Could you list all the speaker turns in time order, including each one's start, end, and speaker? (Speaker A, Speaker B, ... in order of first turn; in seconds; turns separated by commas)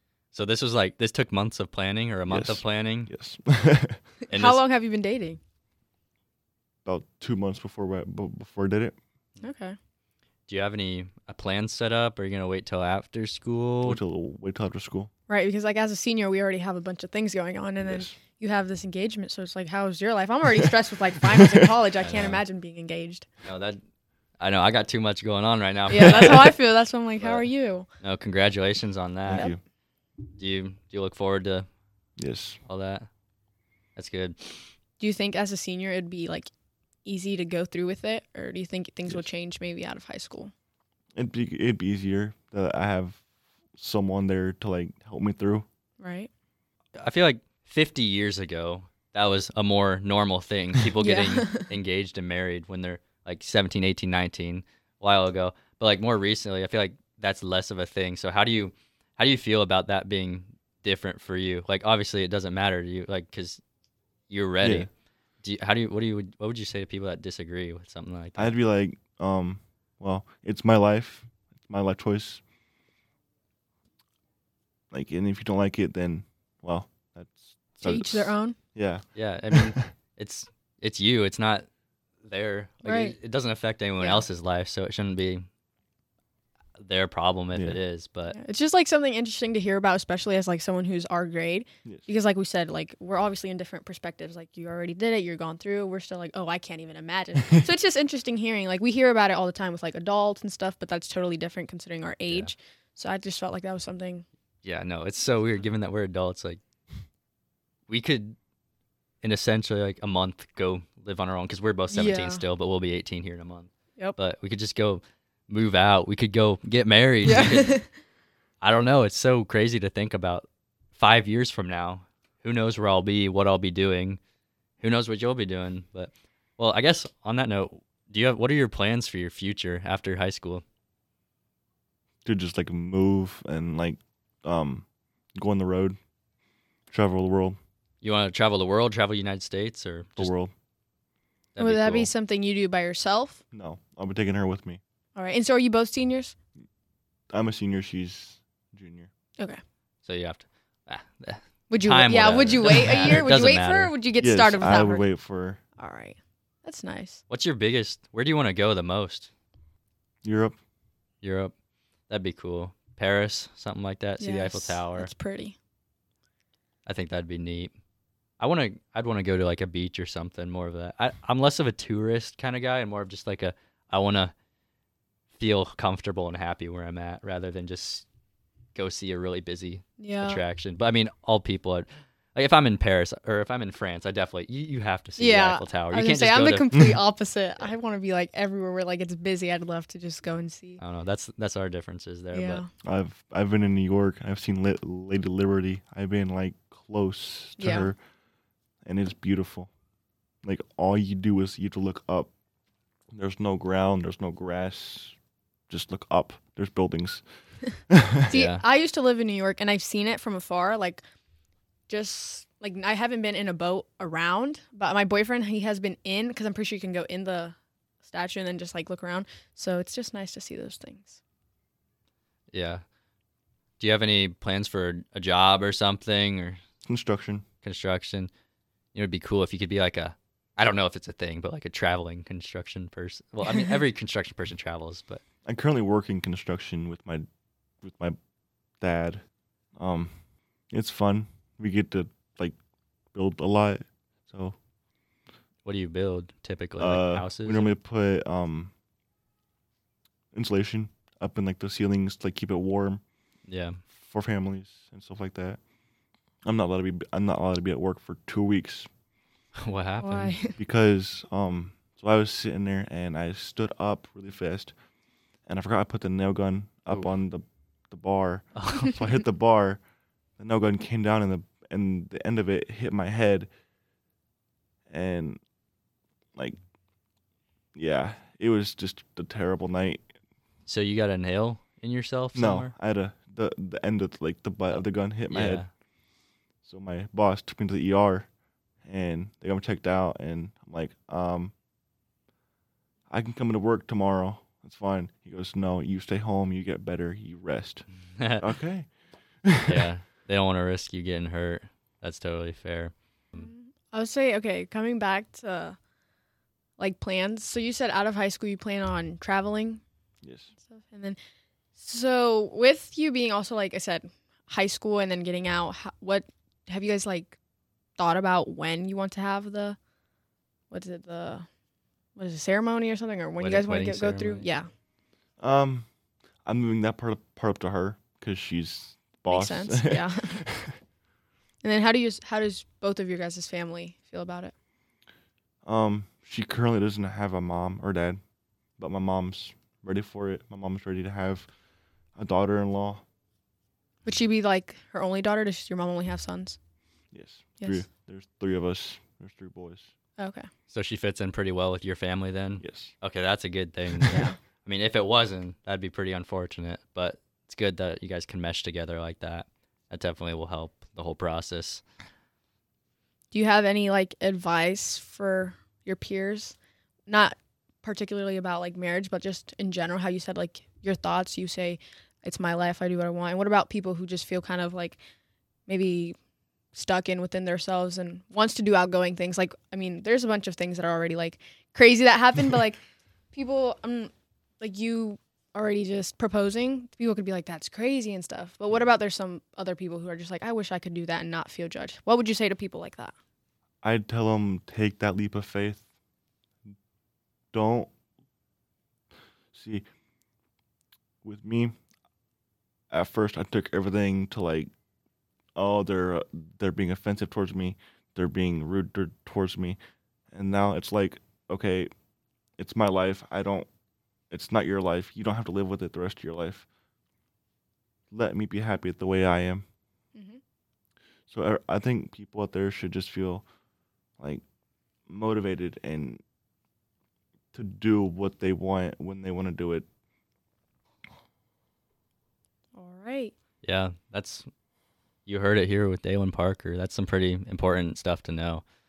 Speaker A: 0.3-3.1, Speaker B: 2.3-4.0, Speaker A: 4.3-4.6, Speaker C: 4.3-5.4, Speaker B: 6.8-9.0, Speaker C: 9.4-9.8, Speaker A: 10.5-14.0, Speaker B: 13.8-15.1, Speaker C: 15.3-23.3, Speaker B: 17.8-18.2, Speaker A: 22.0-22.4, Speaker A: 23.4-23.8, Speaker A: 24.4-26.6, Speaker C: 25.9-27.9, Speaker A: 27.2-27.5, Speaker A: 28.0-29.5, Speaker B: 29.3-29.6, Speaker A: 30.3-31.7, Speaker B: 32.2-32.6, Speaker A: 32.6-33.1, Speaker A: 34.0-34.7, Speaker C: 35.0-36.5, Speaker C: 37.0-40.5, Speaker B: 41.2-43.2, Speaker B: 43.8-45.7, Speaker C: 46.0-46.3, Speaker A: 47.0-63.6, Speaker C: 51.0-51.7, Speaker A: 64.3-64.9, Speaker B: 64.6-64.9, Speaker A: 65.4-68.5, Speaker B: 68.4-72.4, Speaker B: 74.9-79.9, Speaker C: 77.8-78.6, Speaker A: 79.2-81.7, Speaker A: 82.2-85.5, Speaker C: 82.8-83.2, Speaker C: 84.0-84.3, Speaker A: 86.8-88.4, Speaker B: 87.5-87.8, Speaker C: 88.3-104.2, Speaker A: 104.6-106.6, Speaker A: 107.9-108.4, Speaker A: 109.2-117.8, Speaker C: 111.9-112.4, Speaker C: 117.2-117.9, Speaker A: 118.6-124.2, Speaker A: 124.8-130.6, Speaker B: 132.2-136.0, Speaker B: 136.9-137.6, Speaker A: 138.0-140.3, Speaker B: 140.2-140.5, Speaker A: 141.6-142.1, Speaker C: 141.6-143.4, Speaker B: 143.5-144.8, Speaker C: 145.2-146.3, Speaker B: 147.3-149.1, Speaker A: 150.0-153.9, Speaker C: 151.7-155.1, Speaker B: 152.7-153.4, Speaker B: 154.2-155.6, Speaker C: 155.8-157.2, Speaker A: 157.3-159.3, Speaker B: 160.2-160.6, Speaker A: 161.2-161.5, Speaker A: 162.1-165.1, Speaker C: 164.2-165.6, Speaker A: 166.9-167.7, Speaker A: 168.4-174.3, Speaker A: 175.3-178.1, Speaker A: 178.8-186.7, Speaker C: 180.0-180.4, Speaker C: 185.2-190.8, Speaker B: 186.7-187.0, Speaker A: 190.8-192.6, Speaker C: 192.3-192.7, Speaker B: 192.8-198.0, Speaker C: 197.6-197.9, Speaker B: 198.8-199.7, Speaker B: 200.4-202.3, Speaker B: 203.1-205.2, Speaker B: 205.7-207.2, Speaker C: 208.3-211.0, Speaker A: 208.3-208.6, Speaker C: 211.9-221.2, Speaker A: 222.5-222.8, Speaker A: 223.8-226.6, Speaker B: 226.8-227.4, Speaker A: 227.6-228.3, Speaker A: 228.9-235.2, Speaker B: 235.4-237.2, Speaker B: 237.8-238.2, Speaker B: 238.8-239.2, Speaker B: 239.8-240.2, Speaker B: 240.7-242.6, Speaker B: 243.1-244.6, Speaker A: 245.6-247.7, Speaker B: 246.8-248.7, Speaker B: 250.3-253.0, Speaker A: 253.5-253.8, Speaker B: 253.9-255.6, Speaker B: 256.4-258.9, Speaker A: 259.6-260.3, Speaker C: 260.0-260.6, Speaker B: 260.6-264.7, Speaker B: 265.5-269.8, Speaker A: 268.6-268.9, Speaker B: 270.4-273.5, Speaker B: 274.9-275.4, Speaker B: 277.8-280.1, Speaker A: 280.7-282.7, Speaker B: 282.3-285.7, Speaker A: 284.7-285.7, Speaker B: 286.6-288.3, Speaker B: 288.9-291.5, Speaker B: 293.1-297.9, Speaker A: 298.2-298.4, Speaker B: 298.4-298.9, Speaker B: 299.4-299.9, Speaker A: 299.7-303.5, Speaker C: 303.3-305.8, Speaker C: 306.8-309.8, Speaker B: 310.2-310.5, Speaker C: 310.6-311.2, Speaker C: 311.8-317.4, Speaker C: 318.0-319.8, Speaker C: 320.7-321.5, Speaker C: 322.2-324.7, Speaker A: 323.4-324.5, Speaker B: 325.4-325.9, Speaker B: 326.4-330.7, Speaker C: 329.3-330.4, Speaker C: 331.6-334.5, Speaker B: 335.6-338.2, Speaker B: 338.8-341.5, Speaker B: 342.2-343.0, Speaker C: 344.1-346.6, Speaker B: 347.1-349.9, Speaker C: 350.2-350.5, Speaker A: 350.7-361.8, Speaker B: 352.6-352.9, Speaker C: 354.1-354.4, Speaker C: 363.3-366.6, Speaker C: 367.1-375.0, Speaker C: 375.7-376.2, Speaker C: 376.7-382.8, Speaker C: 383.3-393.1, Speaker B: 393.8-395.9, Speaker B: 397.5-397.9, Speaker B: 399.5-399.9, Speaker B: 401.2-401.8, Speaker B: 402.9-404.7, Speaker B: 405.6-409.8, Speaker B: 410.3-411.9, Speaker B: 412.6-413.7, Speaker B: 414.3-416.7, Speaker B: 418.1-419.6, Speaker C: 420.1-420.4, Speaker B: 421.3-423.4, Speaker B: 425.1-426.2, Speaker B: 427.5-429.9, Speaker C: 432.8-433.3, Speaker A: 433.6-434.5, Speaker A: 435.3-438.6